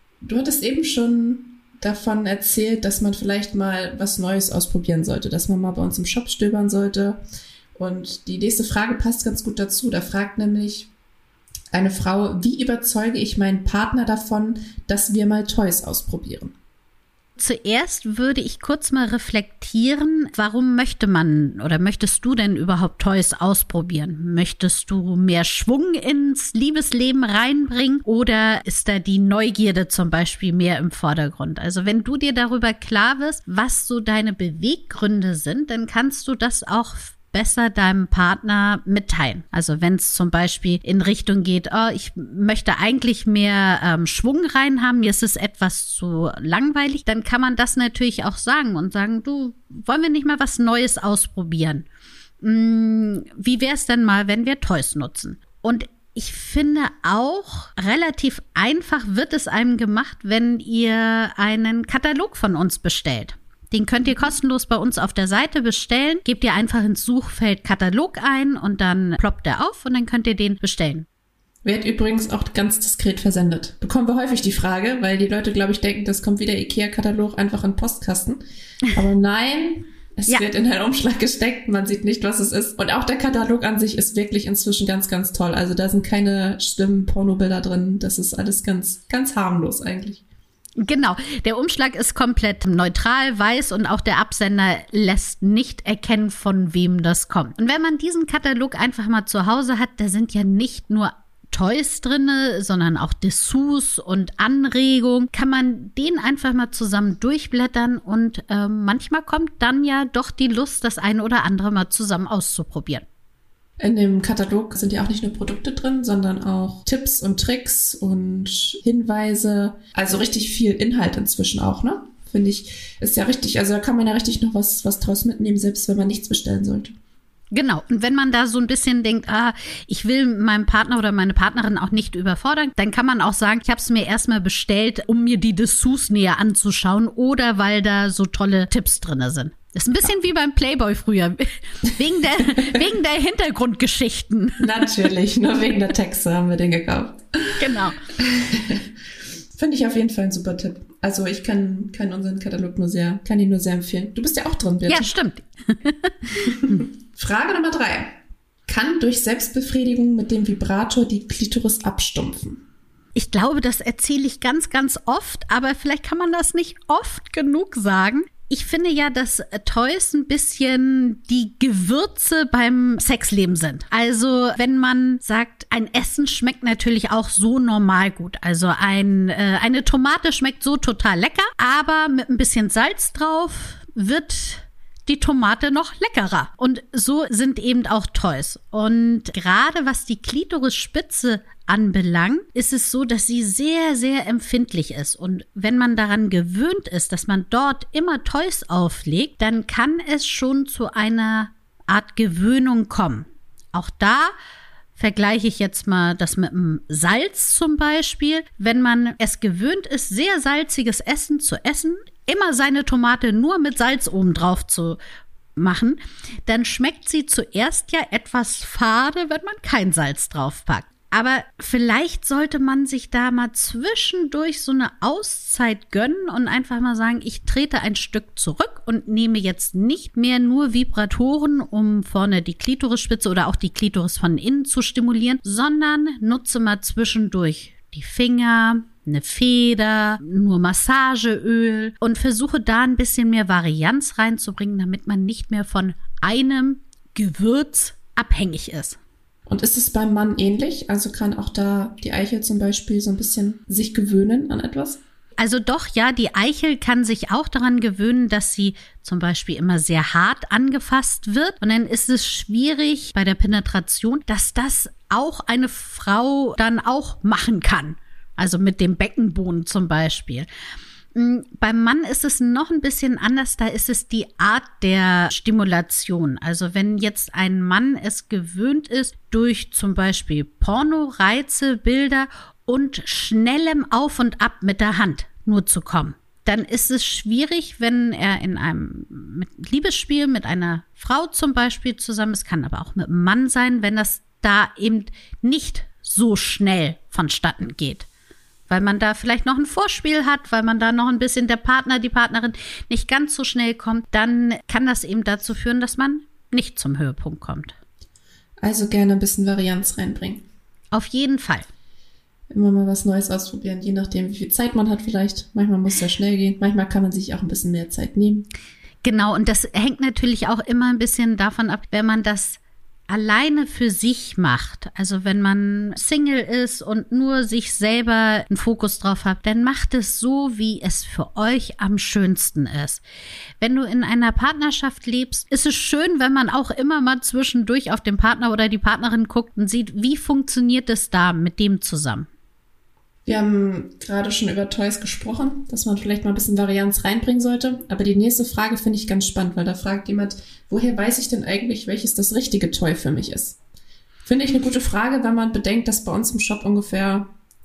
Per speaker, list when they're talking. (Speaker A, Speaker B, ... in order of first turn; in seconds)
Speaker A: 0.2-7.2, 7.7-10.9, 11.7-16.5, 71.6-78.4, 78.9-90.2, 113.8-127.0, 144.6-147.6, 148.2-148.9, 149.5-155.1, 156.4-162.6, 249.5-255.0, 308.6-310.4, 312.5-318.5, 343.2-353.6, 354.2-357.3
Speaker B: 17.4-51.9, 52.4-71.0, 90.8-113.0, 127.5-144.7, 147.6-148.0, 154.9-156.8, 163.1-204.3, 204.9-215.0, 215.6-249.0, 255.4-270.5, 271.1-298.1, 298.7-307.7, 310.9-311.7, 319.0-333.0, 333.6-342.3